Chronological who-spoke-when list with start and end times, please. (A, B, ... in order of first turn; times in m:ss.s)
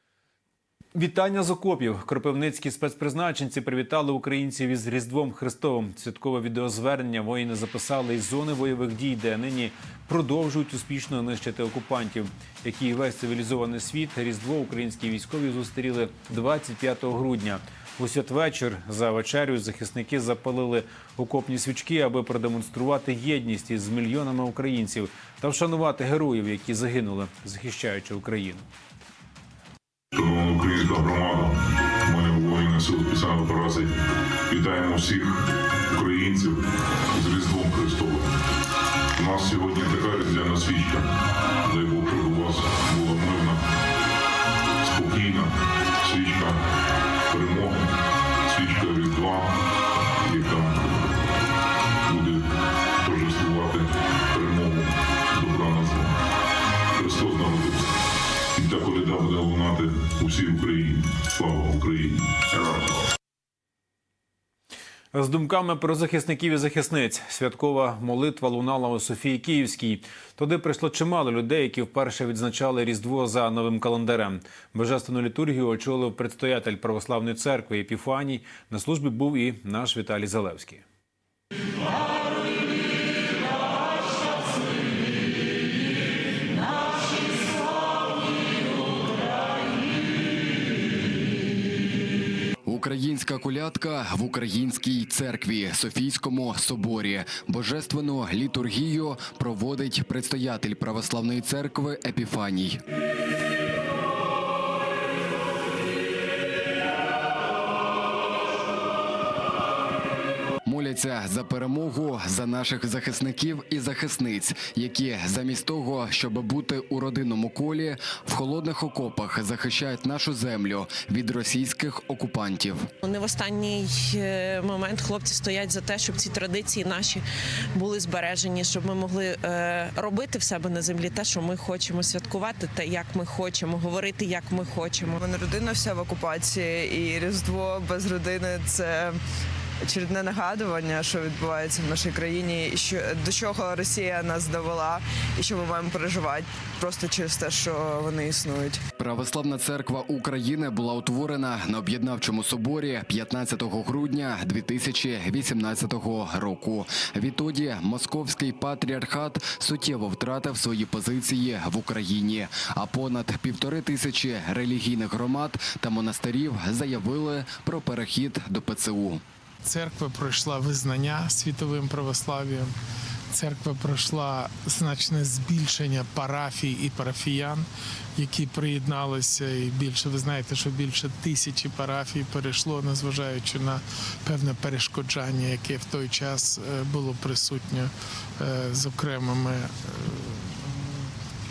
0:00.9-0:28.6 A
0:30.1-0:33.9 B
0:34.5-0:36.6 B
0:37.1-0:38.3 B
0:39.2-0:41.1 B
0:41.6-0:43.6 B
0:44.8-0:46.6 B
0:47.3-0:47.9 B
0:48.5-0:49.5 B
0:50.2-0:51.2 B
0:52.1-0:52.4 B
0:53.0-0:56.1 B
0:56.9-0:57.9 B
0:58.5-1:03.0 B
1:05.1-1:20.8 A
1:32.6-1:42.8 C
1:50.6-2:02.9 C
2:03.0-2:15.2 D
2:15.1-2:19.2 E
2:19.9-2:28.8 E
2:29.0-2:49.2 C
2:49.6-2:52.7 F
2:53.3-3:11.1 F